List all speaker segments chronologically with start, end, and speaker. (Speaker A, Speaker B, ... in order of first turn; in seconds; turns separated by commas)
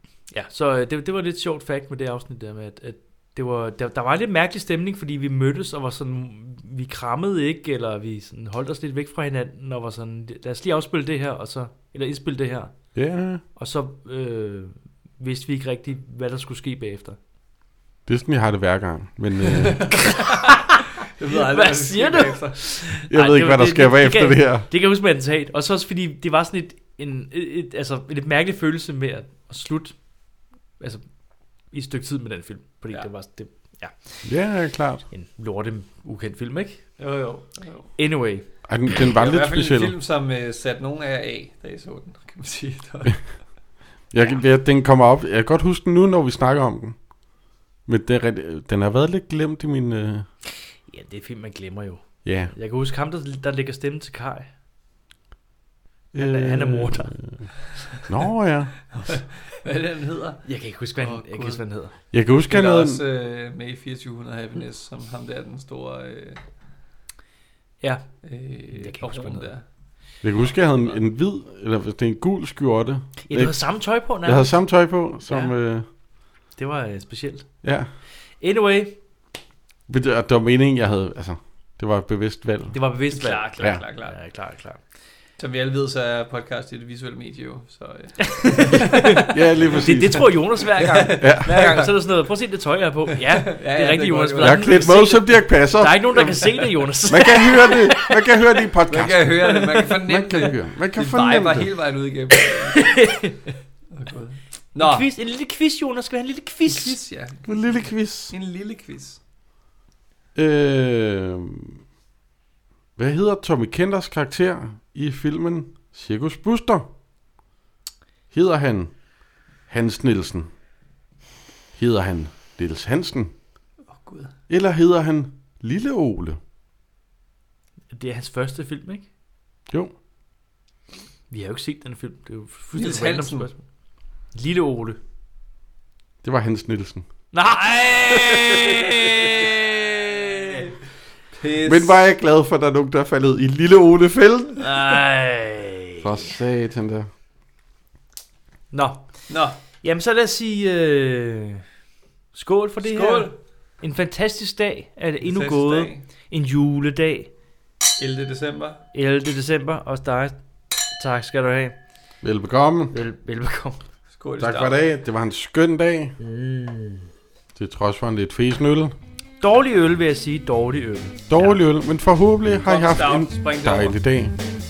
Speaker A: 0.3-12.8, Speaker B: 12.9-13.4, Speaker A: 13.6-17.2, Speaker B: 18.1-20.0, Speaker C: 19.5-22.6, Speaker A: 20.1-30.0, Speaker B: 22.9-24.7, Speaker A: 31.7-34.3, Speaker B: 34.2-35.0, Speaker A: 35.1-37.0, Speaker C: 37.0-37.9, Speaker A: 38.0-38.5, Speaker B: 38.7-40.0, Speaker C: 39.0-43.3, Speaker B: 44.1-47.0, Speaker B: 47.9-50.3, Speaker A: 50.9-54.5, Speaker B: 52.2-52.5, Speaker B: 56.1-57.5, Speaker A: 56.2-57.1, Speaker B: 58.1-58.8, Speaker C: 58.9-61.6, Speaker A: 60.5-61.9, Speaker B: 62.1-63.0, Speaker C: 62.5-66.4, Speaker A: 67.8-68.1, Speaker C: 68.2-69.6, Speaker A: 68.7-69.5, Speaker B: 70.2-73.6, Speaker A: 73.3-74.6, Speaker B: 74.2-75.9, Speaker A: 75.3-75.5, Speaker A: 76.6-77.5, Speaker B: 77.6-77.9, Speaker A: 78.4-79.0, Speaker B: 79.9-82.8, Speaker A: 82.7-84.8, Speaker C: 83.1-84.2, Speaker B: 83.6-83.8, Speaker C: 85.4-89.9, Speaker A: 88.2-98.3, Speaker B: 89.3-90.4, Speaker C: 90.8-91.9, Speaker B: 91.1-91.6, Speaker C: 93.1-95.0, Speaker B: 94.4-101.7, Speaker C: 98.9-103.0, Speaker A: 102.7-103.6, Speaker C: 103.9-105.1, Speaker A: 104.8-107.0, Speaker C: 106.7-109.2, Speaker B: 107.5-108.3, Speaker B: 110.3-111.8, Speaker B: 113.0-116.9, Speaker B: 118.3-119.0, Speaker B: 119.7-120.5, Speaker B: 121.8-123.3, Speaker C: 123.9-124.3, Speaker B: 124.5-126.4, Speaker A: 127.9-129.1, Speaker A: 131.3-133.6, Speaker C: 132.8-133.5, Speaker A: 134.3-135.0, Speaker B: 136.2-137.1, Speaker A: 137.3-140.7, Speaker C: 137.7-139.3, Speaker C: 140.1-140.7, Speaker C: 141.3-142.0, Speaker B: 141.6-144.7, Speaker A: 144.6-146.3, Speaker B: 146.0-147.1, Speaker A: 148.7-149.2, Speaker C: 149.3-149.6, Speaker A: 149.7-151.6, Speaker A: 152.3-157.3, Speaker C: 152.8-153.3, Speaker C: 155.2-156.1, Speaker C: 158.0-158.8, Speaker A: 158.9-160.4, Speaker A: 160.9-161.8, Speaker B: 162.2-163.0, Speaker A: 162.9-163.8, Speaker C: 164.2-164.8, Speaker B: 164.4-166.2, Speaker A: 166.2-167.1, Speaker B: 167.6-168.9, Speaker A: 169.4-171.5, Speaker B: 171.3-174.4, Speaker C: 172.7-174.0